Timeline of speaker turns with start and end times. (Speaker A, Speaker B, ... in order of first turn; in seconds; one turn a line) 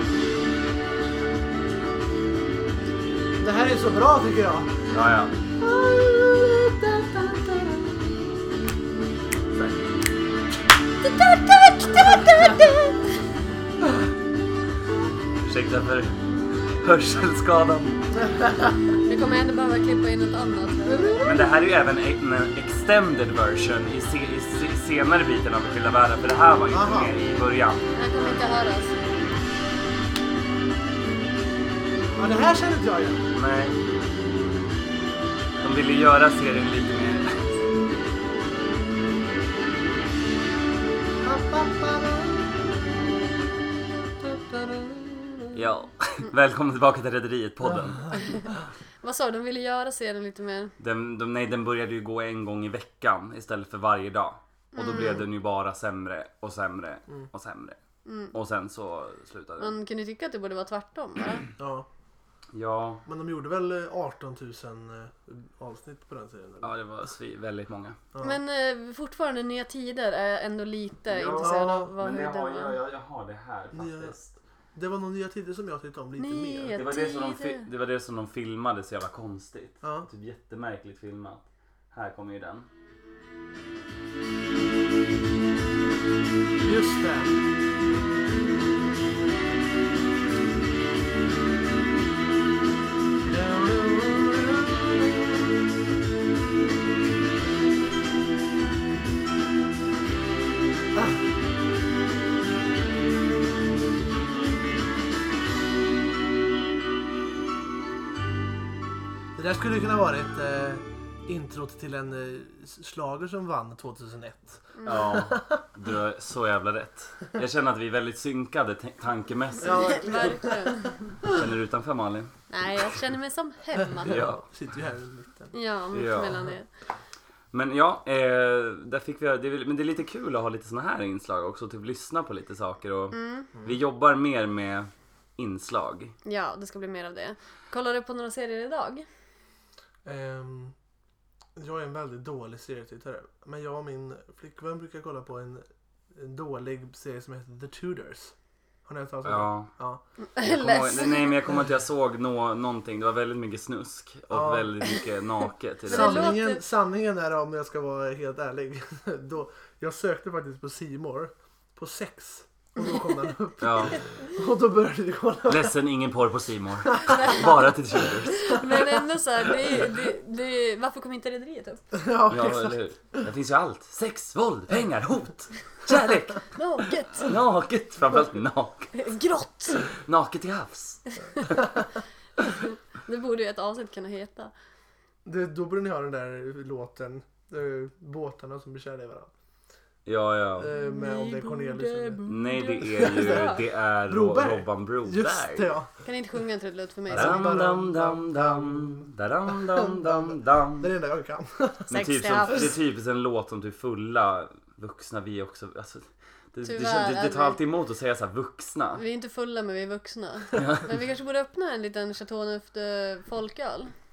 Speaker A: 3.4-4.7
Speaker B: 4.9-5.3
Speaker A: 5.6-8.0
Speaker C: 11.0-13.2
Speaker B: 15.4-18.0
Speaker A: 18.1-18.8
Speaker C: 19.1-21.3
Speaker A: 20.9-21.4
Speaker B: 21.2-28.3
Speaker A: 26.7-27.1
Speaker C: 27.9-28.9
Speaker A: 32.2-33.3
Speaker B: 33.3-33.8
Speaker B: 35.6-37.5
Speaker A: 41.2-42.6
Speaker A: 44.2-45.5
Speaker B: 45.5-48.3
Speaker C: 48.2-48.4
Speaker C: 49.0-50.7
Speaker B: 50.8-57.8
Speaker C: 54.7-55.2
Speaker A: 54.9-55.2
Speaker C: 58.0-58.3
Speaker B: 58.3-59.7
Speaker C: 59.6-61.5
Speaker A: 61.6-61.9
Speaker B: 62.5-63.0
Speaker A: 63.0-66.7
Speaker B: 66.6-68.0
Speaker A: 68.1-68.4
Speaker C: 68.2-72.8
Speaker B: 71.1-74.3
Speaker A: 71.4-71.9
Speaker A: 73.7-74.2
Speaker A: 74.7-76.8
Speaker C: 76.2-77.7
Speaker B: 76.7-82.7
Speaker A: 79.8-80.1
Speaker A: 86.6-87.4
Speaker A: 93.2-95.3
Speaker A: 100.9-101.3
Speaker A: 109.3-115.6
Speaker C: 114.8-115.2
Speaker B: 114.8-120.4
Speaker A: 119.6-121.4
Speaker C: 119.6-121.2
Speaker B: 121.2-122.4
Speaker C: 122.5-124.3
Speaker A: 123.8-125.5
Speaker B: 124.0-124.4
Speaker C: 125.5-126.7
Speaker B: 125.9-126.5
Speaker B: 127.5-136.1
Speaker C: 133.1-133.5
Speaker C: 136.2-139.1
Speaker A: 140.0-140.7
Speaker A: 141.6-148.3
Speaker A: 148.8-150.0
Speaker B: 149.2-149.7
Speaker C: 150.2-151.4
Speaker B: 150.4-156.3
Speaker A: 154.3-154.8
Speaker A: 155.9-165.8
Speaker C: 155.9-156.6
Speaker B: 163.6-164.0
Speaker B: 165.5-168.7
Speaker A: 166.8-168.1
Speaker C: 167.1-167.4
Speaker C: 168.3-171.8
Speaker A: 171.9-173.2
Speaker B: 172.3-176.5
Speaker C: 176.5-177.3
Speaker B: 177.1-179.0
Speaker C: 178.9-179.9
Speaker B: 179.9-181.0
Speaker C: 181.3-181.6
Speaker C: 182.6-184.5
Speaker A: 185.2-189.3
Speaker B: 190.1-190.7
Speaker A: 190.6-195.9
Speaker C: 190.8-193.6
Speaker B: 192.2-195.7
Speaker C: 196.0-197.6
Speaker A: 197.1-201.9
Speaker B: 197.1-200.9
Speaker C: 201.9-202.7
Speaker B: 201.9-209.0
Speaker C: 206.6-207.6
Speaker C: 208.9-213.9
Speaker B: 210.6-210.9